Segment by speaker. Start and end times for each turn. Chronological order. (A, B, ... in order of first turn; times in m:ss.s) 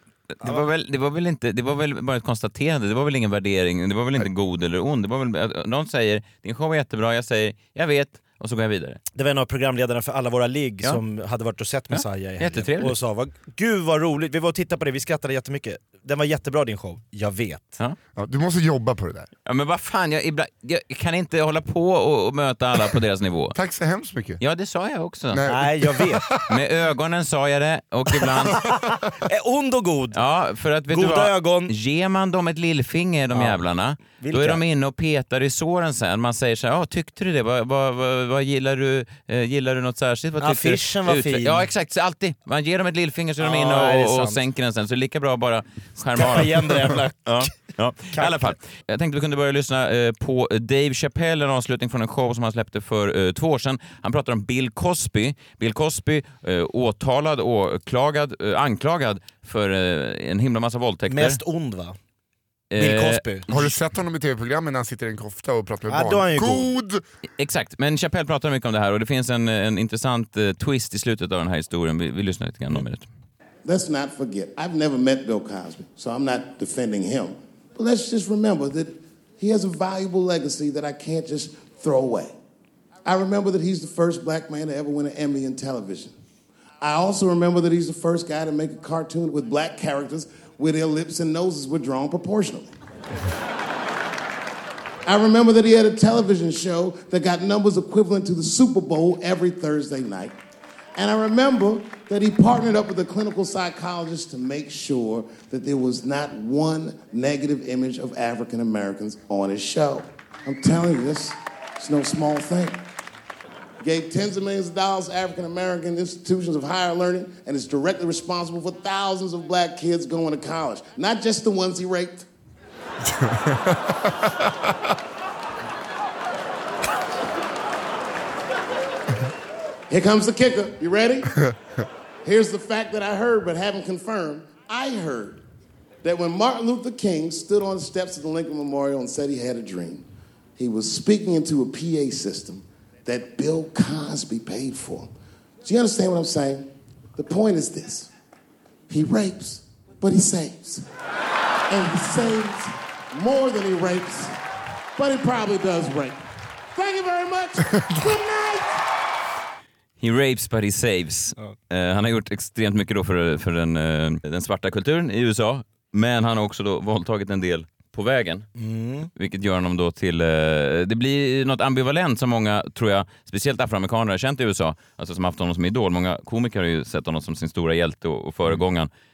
0:00.4-0:09.0 A
0:09.2-0:17.8 B
0:11.9-0:13.0 A
0:18.2-0:19.3 C
0:19.5-0:23.6 A
0:23.6-0:24.4 C
0:24.4-0:25.5 A
0:25.3-0:26.6 C
0:25.5-0:26.2 B
0:26.5-0:28.6 A
0:29.3-0:30.2 B
0:30.1-1:01.4 A
0:30.9-0:31.7 B
0:33.3-0:34.6 B
0:40.4-0:41.7 B
0:43.4-0:44.4 B
0:46.2-0:47.5 B
0:48.1-0:48.5 B
1:01.1-1:02.0 B
1:02.7-1:03.6 A
1:02.8-1:03.5 B
1:03.5-1:07.0 C
1:05.9-1:06.7 B
1:07.4-1:13.1 A
1:13.6-1:22.3 D
1:23.0-1:26.1 D
1:26.8-1:32.7 D
1:35.1-1:40.4 D
1:41.0-1:52.8 D
1:53.8-2:02.3 D
2:03.0-2:04.8 C
2:09.9-2:11.4 D
2:12.2-2:15.4 D
2:16.0-2:20.1 D
2:20.6-2:25.1 D
2:25.6-2:28.1 D
2:28.9-2:30.8 D
2:31.7-2:34.4 D
2:35.0-2:36.2 D
2:36.8-2:38.8 D
2:40.0-2:48.5 A
2:48.6-2:49.1 B
2:49.2-2:58.9 A